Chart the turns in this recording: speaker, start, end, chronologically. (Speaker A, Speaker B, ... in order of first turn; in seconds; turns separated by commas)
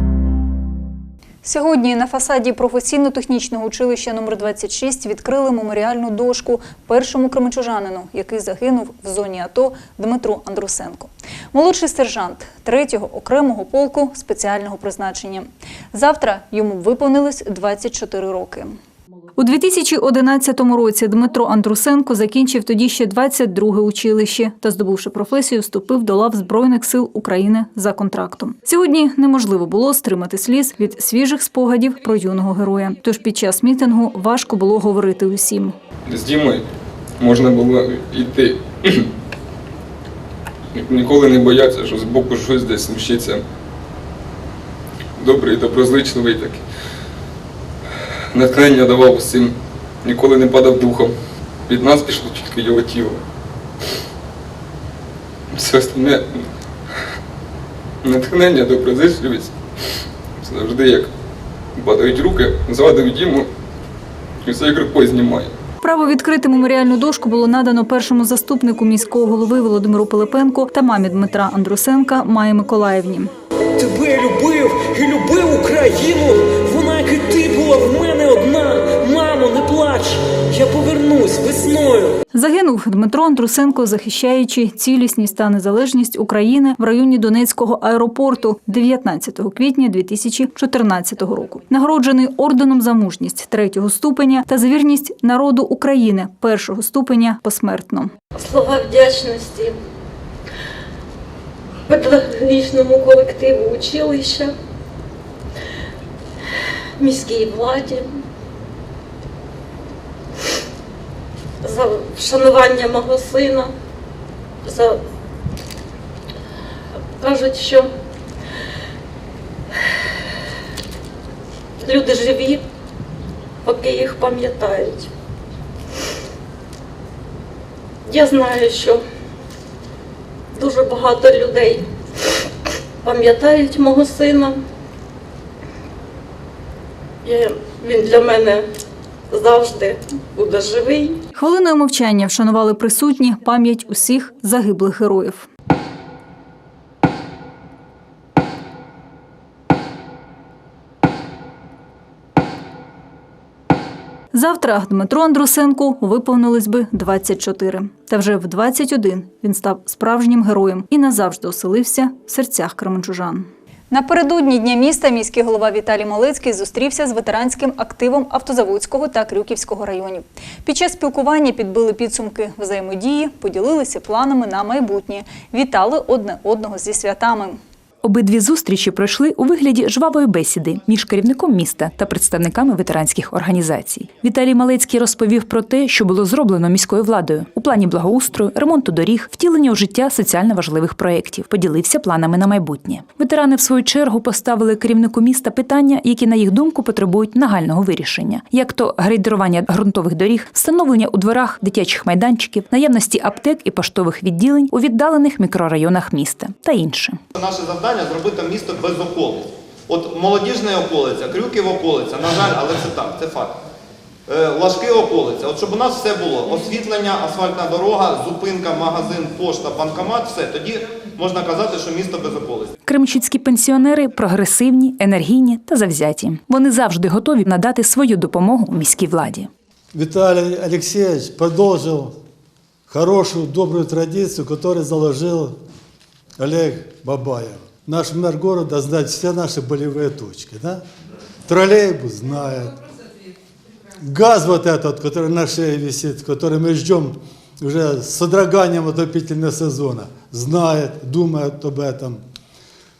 Speaker A: 1.4-18.8, Speaker A: 19.4-35.7, Speaker B: 36.1-36.6, Speaker B: 37.2-39.0, Speaker B: 40.7-43.4, Speaker B: 45.2-46.6, Speaker B: 48.3-49.5, Speaker B: 50.0-51.1, Speaker B: 51.7-53.2, Speaker B: 55.5-56.4, Speaker B: 58.0-59.5, Speaker B: 60.4-61.1, Speaker B: 61.8-63.5, Speaker B: 64.4-65.5, Speaker A: 65.8-73.3, Speaker C: 73.8-82.1, Speaker A: 82.3-98.1, Speaker D: 98.4-99.7, Speaker D: 101.9-104.5, Speaker D: 107.0-108.0, Speaker D: 111.6-113.7, Speaker D: 114.7-115.0, Speaker D: 117.2-117.9, Speaker D: 121.8-122.6, Speaker D: 123.7-125.1, Speaker D: 128.1-129.0, Speaker D: 130.6-131.8, Speaker D: 133.0-134.6, Speaker D: 137.2-138.6, Speaker D: 139.3-141.1, Speaker A: 141.3-145.5, Speaker A: 154.3-177.6, Speaker E: 178.0-207.2, Speaker F: 207.3-213.6, Speaker F: 214.3-222.7, Speaker E: 222.9-229.5, Speaker G: 229.9-232.1, Speaker G: 232.9-235.5, Speaker G: 236.4-240.8, Speaker G: 241.5-242.8, Speaker G: 244.0-252.2